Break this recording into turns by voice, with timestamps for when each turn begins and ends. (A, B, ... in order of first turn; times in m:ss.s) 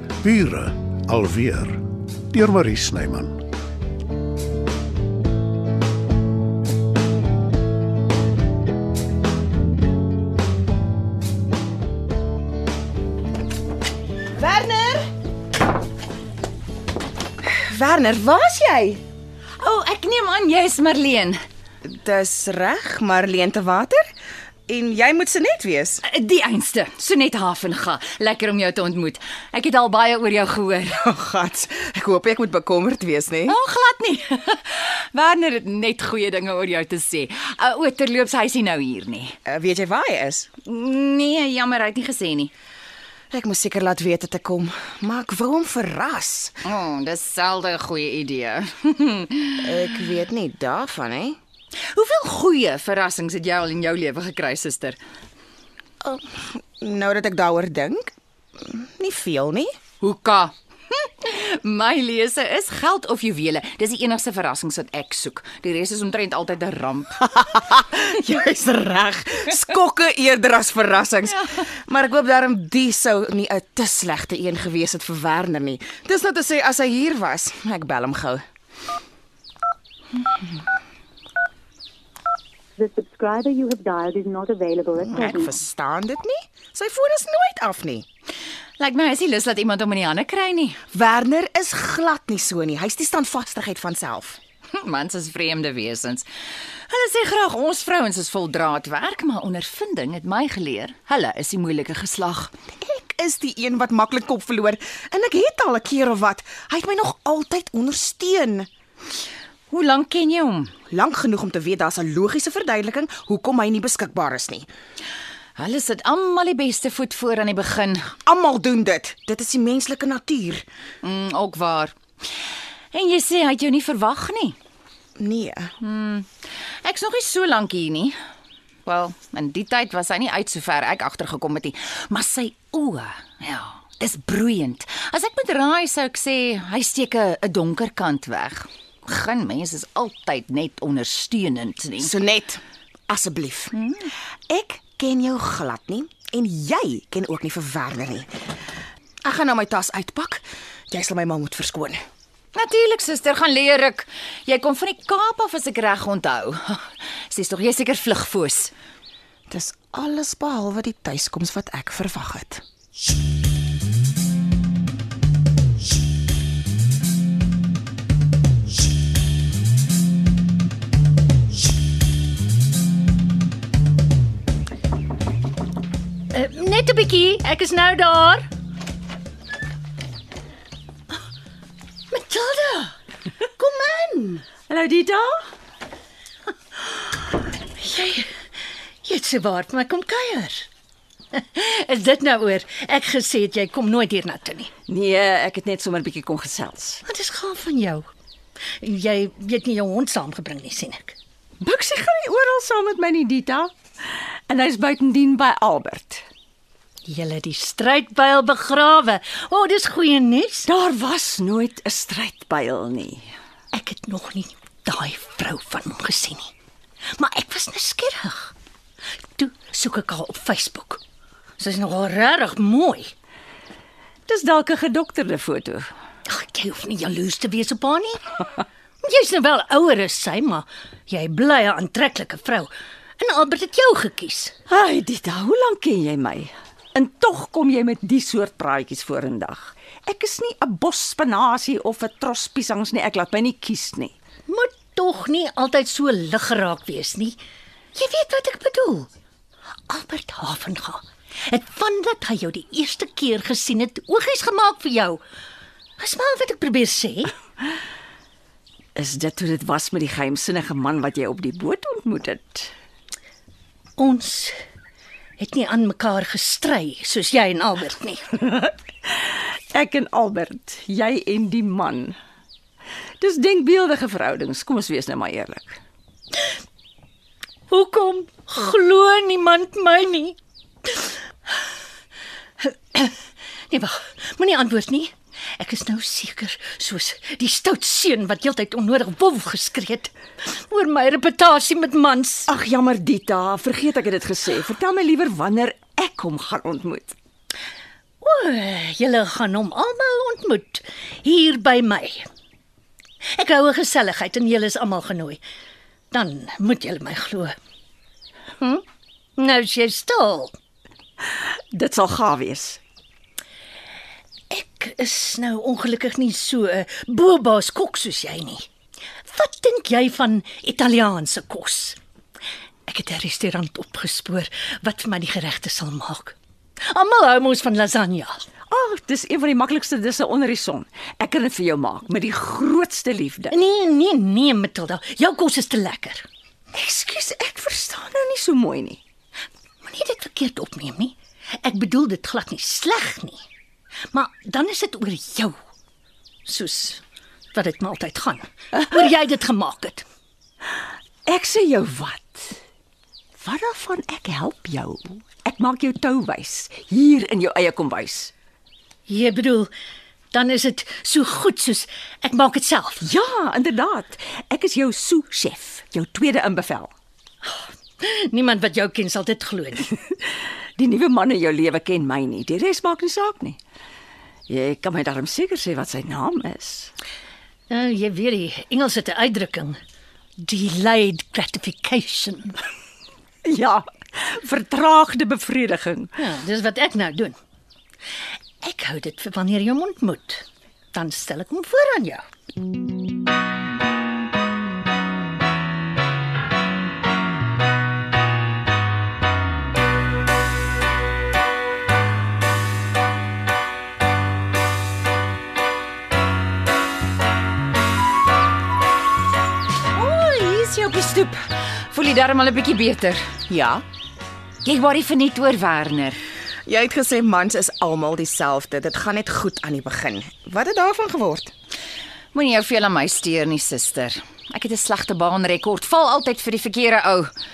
0:00.2-0:03.4 A
0:14.4-0:15.1 B
0:17.4-0:19.0 B
0:19.6-0:21.4 C
0:21.8-0:24.1 B
0:24.7-0:26.0 B
0:26.0-0:31.0 C
0:31.0-0:33.6 B
0:33.5-0:39.4 C
0:39.4-0:40.5 B
0:40.6-0:42.5 C
0:43.3-0:46.6 B
0:46.6-0:49.6 C
0:49.6-0:51.4 B
0:51.9-0:55.0 C
0:56.0-0:59.7 B
1:00.0-1:07.2 C
1:07.2-1:18.4 B
1:22.8-1:25.4 D
1:24.9-1:28.0 B
1:28.8-1:30.8 C
1:30.9-1:34.4 B
1:34.7-1:42.5 C
1:42.8-1:48.7 B
1:49.7-1:50.7 C
1:50.9-1:54.7 B
1:55.6-1:58.1 C
1:58.2-2:00.6 B
2:01.0-2:01.9 C
2:02.9-2:04.6 C
2:05.2-2:05.7 B
2:05.8-2:08.2 C
2:08.8-2:22.1 C
2:22.0-2:28.3 B
2:29.2-2:32.0 B
2:32.5-2:38.7 C
2:39.5-2:42.6 B
2:56.3-2:58.5 E
3:02.1-3:02.9 E
3:03.7-3:04.3 E
3:04.6-3:05.5 F
3:07.8-3:08.3 E
3:09.0-3:10.7 E
3:11.3-3:14.7 E
3:14.9-3:17.0 F
3:17.0-3:18.1 E
3:18.8-3:21.2 E
3:21.6-3:23.7 F
3:24.5-3:26.2 F
3:27.0-3:30.7 E
3:30.6-3:33.3 F
3:33.7-3:36.5 E
3:37.2-3:38.5 E
3:39.4-3:41.0 E
3:41.6-3:43.1 E
3:44.3-3:45.9 F
3:46.2-3:54.5 E
3:54.7-4:04.1 F
4:04.5-4:07.4 E
4:07.9-4:09.1 E
4:09.9-4:15.2 E
4:16.0-4:17.3 E
4:18.9-4:22.7 F
4:24.0-4:24.6 E
4:25.4-4:28.4 E
4:28.5-4:32.2 F
4:33.2-4:35.8 F
4:37.7-4:41.1 E
4:42.6-4:43.2 E
4:43.7-4:52.5 E
4:52.5-4:57.2 F
4:58.2-5:02.2 E
5:03.3-5:05.4 E
5:06.1-5:07.5 E
5:09.4-5:10.6 E
5:11.3-5:12.8 F
5:14.5-5:18.7 E
5:19.3-5:22.0 E
5:22.9-5:26.4 E
5:26.9-5:28.4 E
5:28.7-5:33.5 F
5:33.5-5:36.3 E
5:36.7-5:39.0 F
5:39.8-5:43.4 E
5:44.1-5:45.6 E
5:46.4-5:47.0 E
5:47.5-5:50.0 E
5:51.2-5:52.6 F
5:53.4-5:58.3 F
5:59.1-5:59.7 E
6:00.3-6:03.0 E
6:03.0-6:06.9 F
6:08.0-6:10.0 E
6:10.8-6:13.6 F
6:14.5-6:16.9 F
6:17.7-6:19.8 E
6:20.4-6:22.6 E
6:23.4-6:26.1 F
6:26.2-6:27.4 E
6:28.6-6:32.2 E
6:49.9-6:53.2 C
6:53.5-6:53.8 B
6:54.6-6:56.2 C
6:56.6-7:01.5 B
7:02.3-7:07.3 C